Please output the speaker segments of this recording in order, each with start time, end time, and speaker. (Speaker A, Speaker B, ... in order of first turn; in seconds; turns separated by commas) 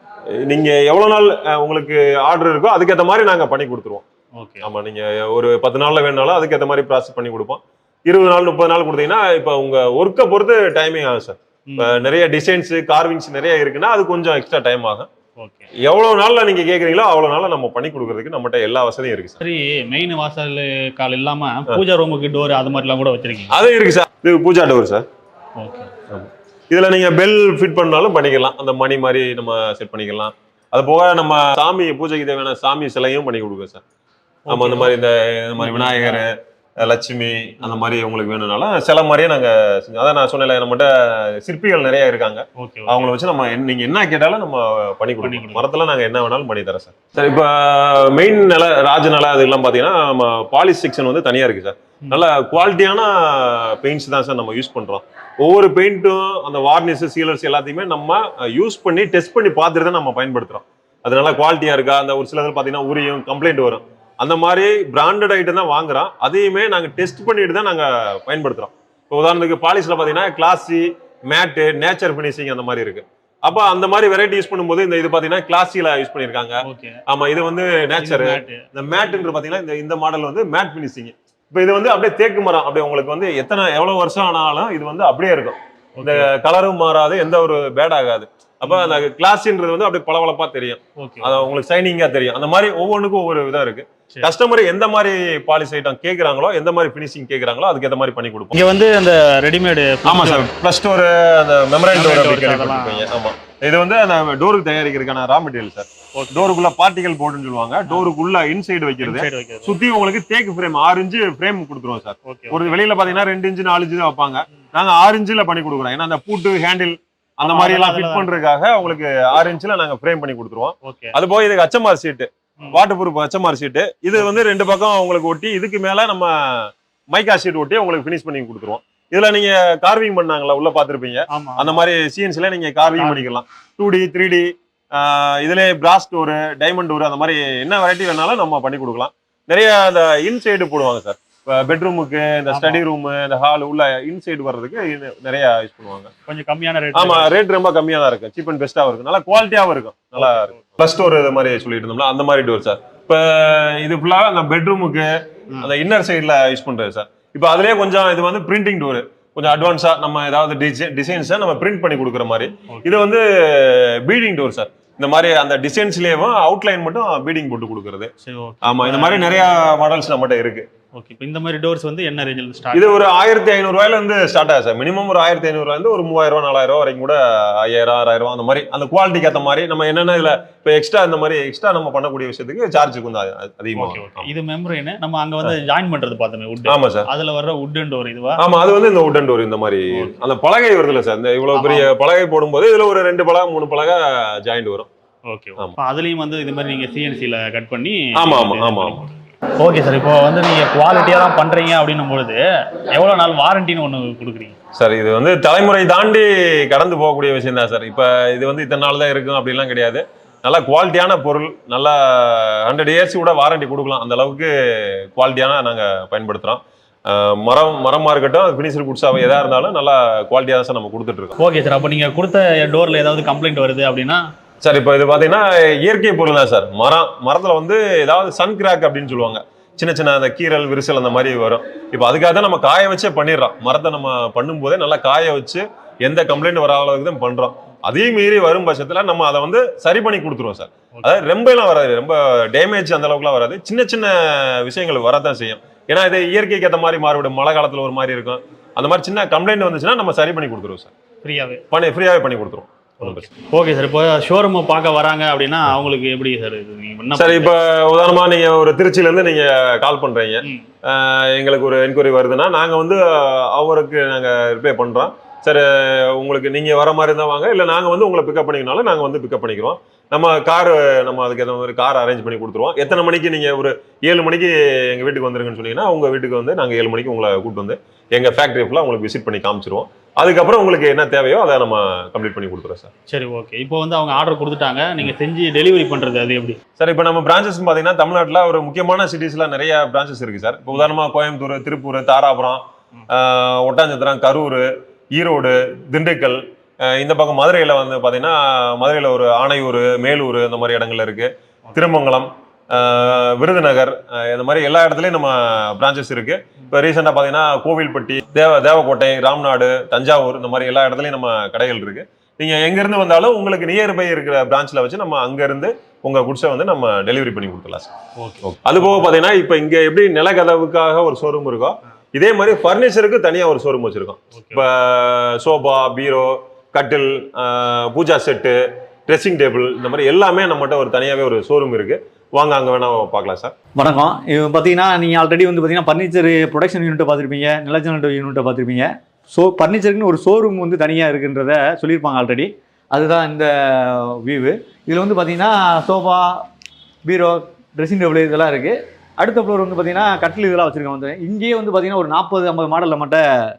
Speaker A: 0.4-4.0, Speaker B: 4.4-4.7, Speaker A: 4.6-15.1, Speaker B: 11.7-12.1, Speaker B: 15.4-15.7, Speaker A: 15.8-19.4, Speaker B: 19.4-23.5, Speaker A: 23.5-25.1, Speaker B: 25.6-25.9, Speaker A: 26.1-33.8, Speaker B: 34.5-34.9, Speaker A: 34.5-98.6, Speaker B: 35.6-36.2, Speaker B: 42.6-43.0, Speaker B: 45.2-45.7, Speaker B: 76.6-77.0, Speaker B: 78.0-78.7, Speaker B: 86.0-86.3, Speaker B: 88.7-89.0, Speaker B: 91.0-91.5, Speaker B: 98.5-100.4, Speaker A: 100.0-146.1, Speaker B: 101.9-103.1, Speaker B: 109.0-109.7, Speaker B: 112.2-112.8, Speaker B: 117.5-118.4, Speaker B: 120.8-121.1, Speaker B: 131.3-131.8, Speaker B: 142.5-142.8, Speaker B: 146.3-147.3, Speaker A: 146.9-155.1, Speaker B: 150.2-150.6, Speaker A: 155.6-168.1, Speaker B: 162.7-163.0, Speaker B: 168.2-169.4, Speaker A: 168.6-170.7, Speaker B: 170.9-173.1, Speaker A: 172.7-184.3, Speaker B: 183.8-188.4, Speaker A: 186.7-187.1, Speaker A: 188.4-194.9, Speaker B: 191.5-191.9, Speaker B: 195.3-199.1, Speaker A: 198.2-199.1, Speaker B: 199.6-202.4, Speaker B: 202.9-204.6, Speaker A: 204.8-221.4, Speaker B: 221.4-224.2, Speaker A: 224.6-250.9, Speaker B: 240.9-241.2, Speaker B: 251.2-251.6, Speaker A: 251.7-253.3, Speaker B: 253.0-257.5, Speaker A: 257.1-282.9, Speaker B: 283.1-286.6, Speaker A: 286.8-317.9, Speaker B: 318.2-319.0, Speaker A: 318.4-333.5, Speaker B: 324.3-324.6, Speaker C: 333.8-346.4, Speaker C: 347.0-353.2